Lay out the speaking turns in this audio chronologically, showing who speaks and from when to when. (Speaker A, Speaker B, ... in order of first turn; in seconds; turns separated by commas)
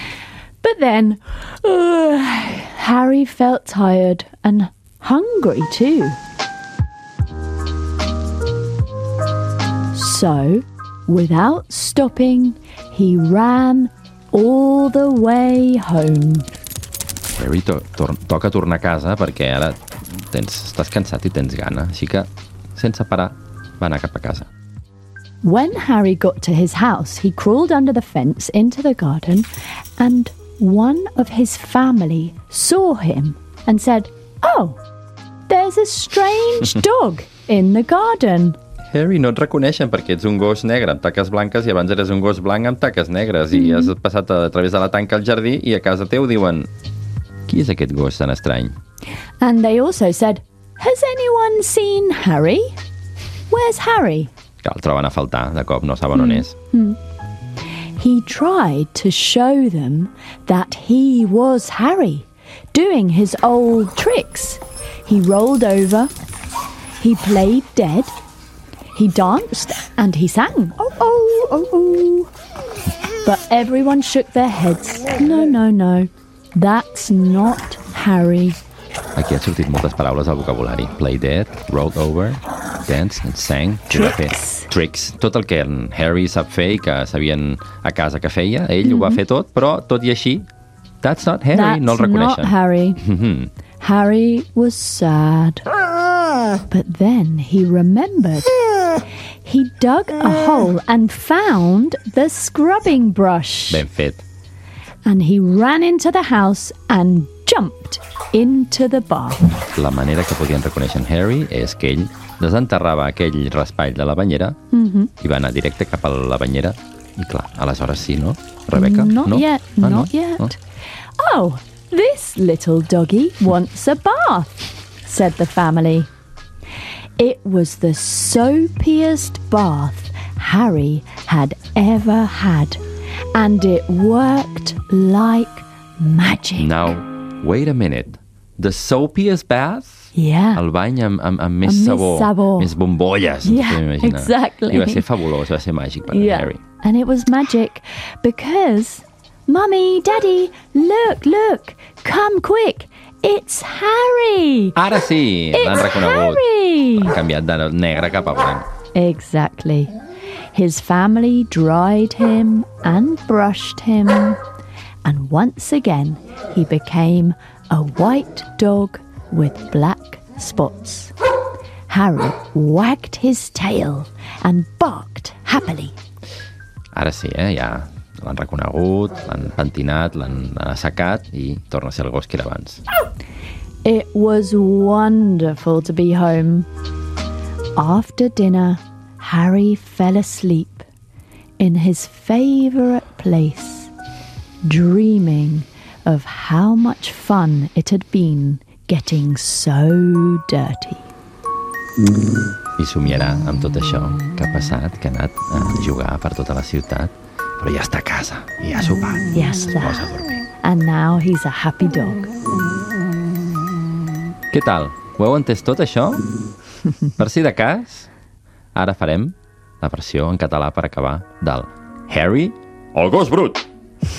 Speaker A: 0.6-6.2, Speaker A: 9.9-16.5, Speaker B: 17.3-24.5, Speaker A: 25.4-34.8, Speaker A: 35.5-38.6, Speaker B: 38.9-46.7, Speaker A: 43.5-43.9, Speaker B: 47.5-48.8, Speaker A: 49.4-52.7, Speaker A: 53.5-54.3, Speaker B: 54.6-56.5, Speaker A: 56.1-57.0, Speaker A: 58.0-66.1, Speaker A: 67.0-68.1, Speaker A: 68.9-72.3, Speaker A: 73.2-78.6, Speaker B: 79.2-90.5, Speaker A: 83.9-84.7, Speaker A: 88.8-89.2, Speaker B: 91.0-93.5, Speaker A: 91.5-93.0, Speaker A: 93.8-95.7, Speaker A: 96.7-98.5, Speaker A: 99.4-103.8, Speaker B: 103.7-104.2, Speaker A: 105.0-109.5, Speaker B: 109.7-114.6, Speaker A: 114.7-115.1, Speaker B: 115.2-120.5, Speaker A: 118.7-120.6, Speaker A: 121.2-126.1, Speaker A: 127.2-132.8, Speaker A: 133.3-136.9, Speaker B: 136.6-146.6, Speaker A: 140.2-140.6, Speaker A: 141.6-142.7, Speaker A: 143.4-145.1, Speaker A: 146.1-154.8, Speaker B: 154.8-158.7, Speaker A: 155.5-157.2, Speaker A: 158.9-159.9, Speaker A: 160.5-164.4, Speaker A: 165.1-171.1, Speaker A: 171.9-176.0, Speaker B: 176.9-182.8, Speaker A: 183.8-186.7, Speaker A: 187.8-190.9, Speaker A: 191.6-193.9, Speaker A: 194.6-201.1, Speaker B: 202.8-210.4, Speaker A: 209.3-212.2, Speaker B: 214.5-216.2, Speaker B: 217.2-218.1, Speaker B: 218.8-223.6